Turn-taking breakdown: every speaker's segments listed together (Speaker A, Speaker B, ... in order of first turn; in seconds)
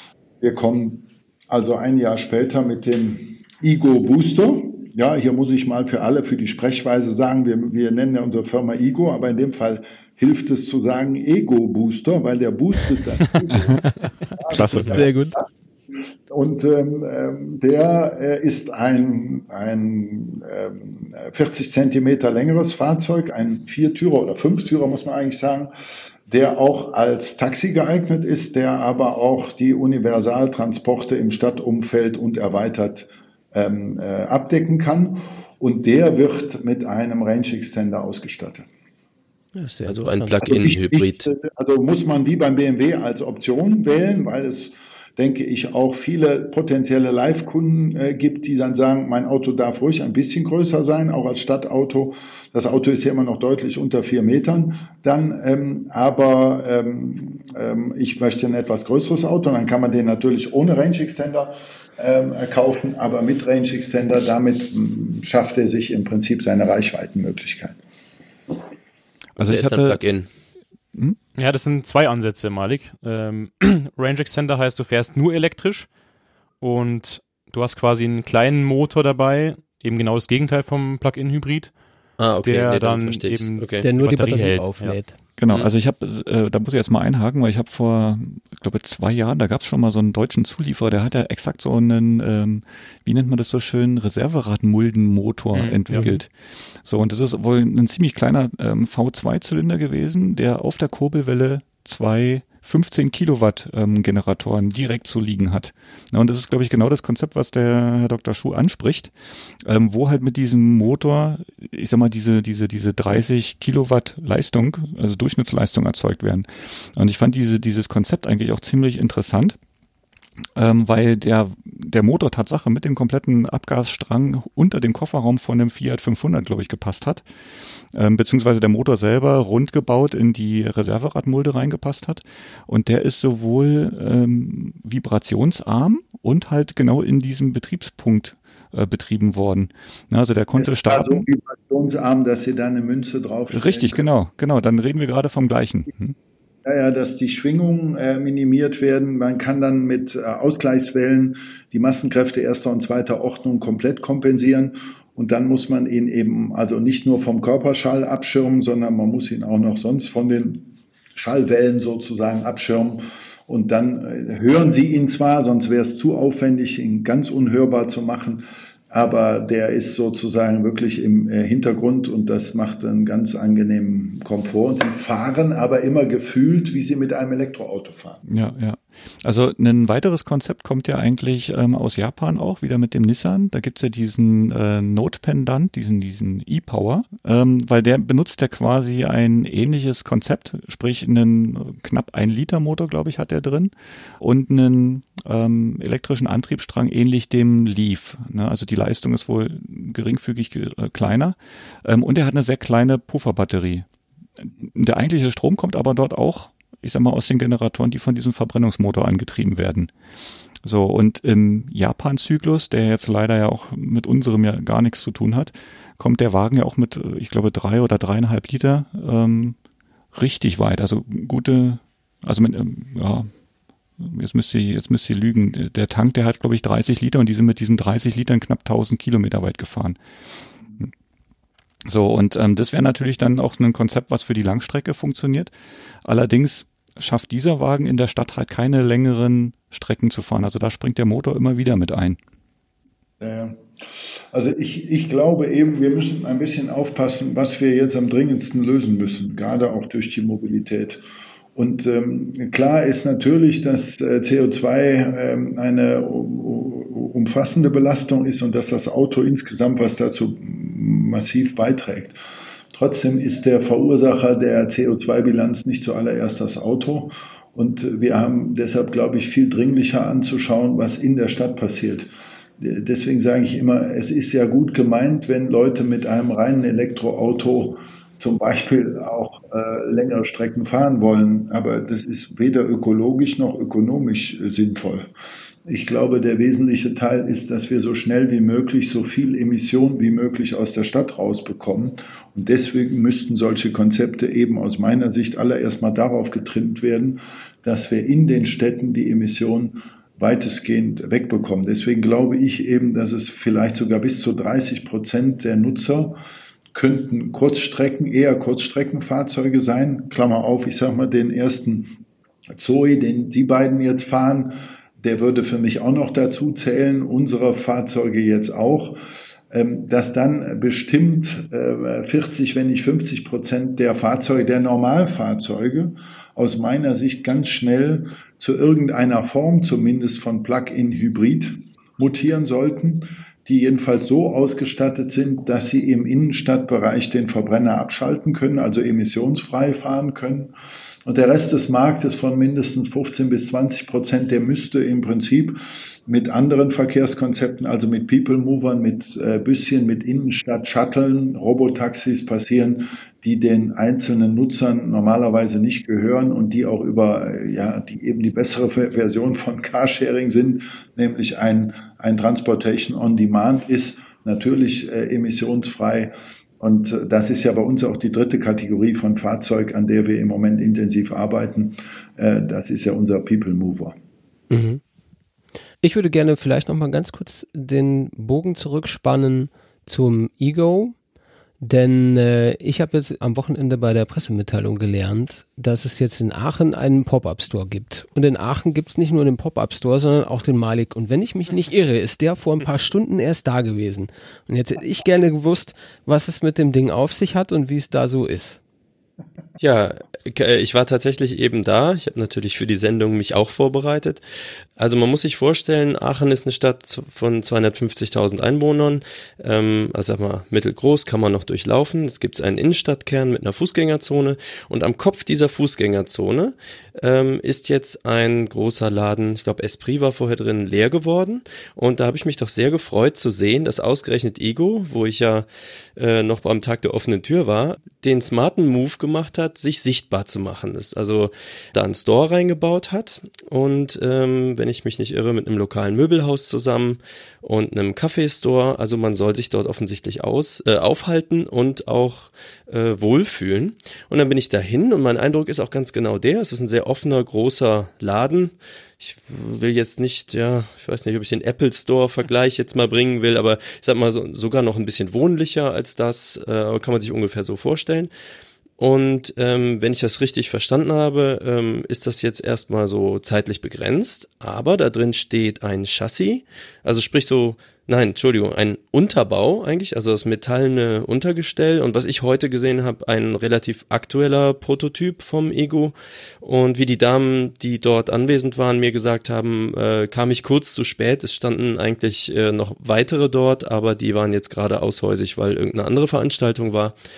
Speaker A: 0.4-15.4, 16.3-25.7, 26.3-38.7, 40.5-67.8, 140.6-144.0, 146.6-178.2, 243.2-243.6, 244.3-251.0, 251.6-262.2, 262.7-285.1, 285.6-306.2, 306.7-312.0, 312.6-319.0, 319.5-340.5, 341.1-374.0
Speaker B: 14.6-15.4, 39.5-40.7, 83.8-85.1, 374.5-374.8, 375.8-380.9, 381.6-398.6
Speaker C: 39.9-41.3, 69.4-70.3, 82.2-83.9, 399.6-404.2, 404.8-458.1, 458.8-487.0
Speaker D: 69.4-70.0, 85.4-96.3, 96.8-109.1, 109.6-119.6, 120.6-127.2, 127.9-141.3, 143.5-146.1, 178.3-203.9, 204.4-209.9, 210.6-219.6, 220.1-223.3, 224.0-230.0, 231.9-235.5, 236.1-242.2
Speaker E: 71.4-75.9, 76.6-81.7, 82.4-85.0, 95.5-96.2